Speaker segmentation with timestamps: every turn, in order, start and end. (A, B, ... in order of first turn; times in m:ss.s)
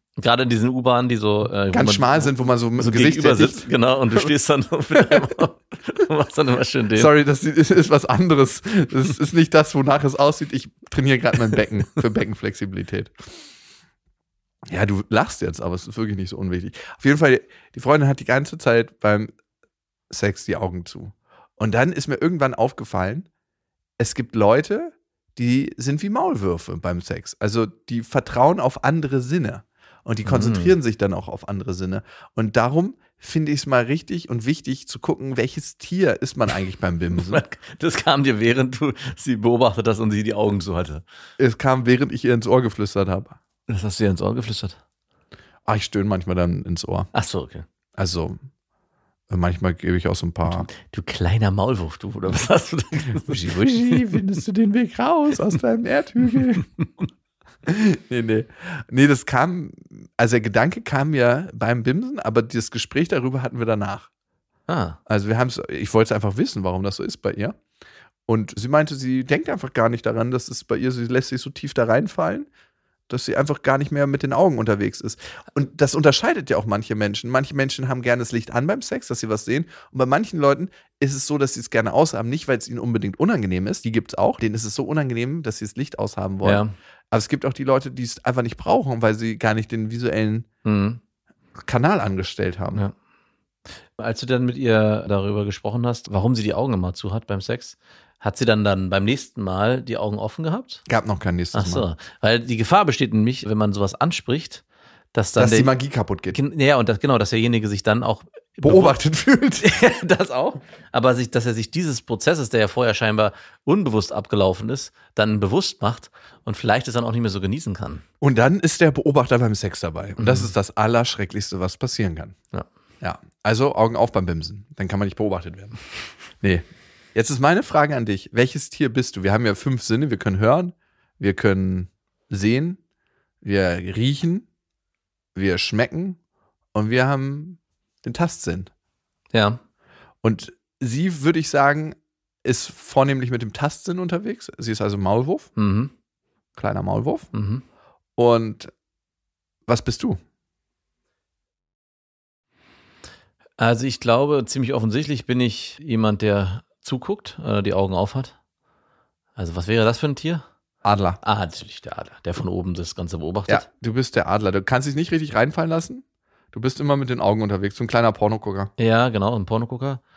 0:00.2-0:07.1 A
0:01.7-0:04.3 B
0:06.9-0:13.1 B
0:14.6-0:19.3 B
0:20.1-0:23.2 B
0:24.0-0:37.4 B
0:30.2-0:30.7 A
0:37.2-0:41.0 A
0:41.4-0:43.4 B
0:43.7-0:44.8 A
0:45.6-0:47.1 B
0:47.1-0:47.6 A
0:48.0-0:48.4 B
0:49.3-0:50.7 B
0:50.5-0:54.2 A
0:53.1-0:56.7 B
0:57.6-1:04.1 B
1:04.7-1:05.0 A
1:05.1-1:07.6 B
1:08.3-1:12.5 B
1:13.1-1:30.5 B
1:26.4-1:26.7 A
1:30.6-1:31.0 A
1:31.6-1:32.8 B
1:34.0-1:40.8 A
1:40.9-1:41.9 B
1:41.5-1:44.6 A
1:45.1-1:45.7 A
1:45.4-1:46.4 B
1:46.3-1:49.0 A
1:48.6-1:49.7 B
1:49.6-1:58.0 A
1:58.2-2:02.4 B
2:00.2-2:00.5 A
2:03.0-2:05.8 B
2:06.4-2:12.8 B
2:13.4-2:14.4 B
2:15.3-2:16.2 B
2:16.7-2:18.7 B
2:19.3-2:19.6 A
2:20.2-2:25.5 B
2:25.6-2:25.9 A
2:26.6-2:27.3 B
2:27.3-2:27.6 A
2:28.2-2:28.7 B
2:29.7-2:30.2 B
2:33.6-2:38.3 A
2:39.4-2:40.4 A
2:40.8-2:41.2 B
2:41.2-2:43.6 A
2:43.5-2:48.7 B
2:48.8-2:50.0 A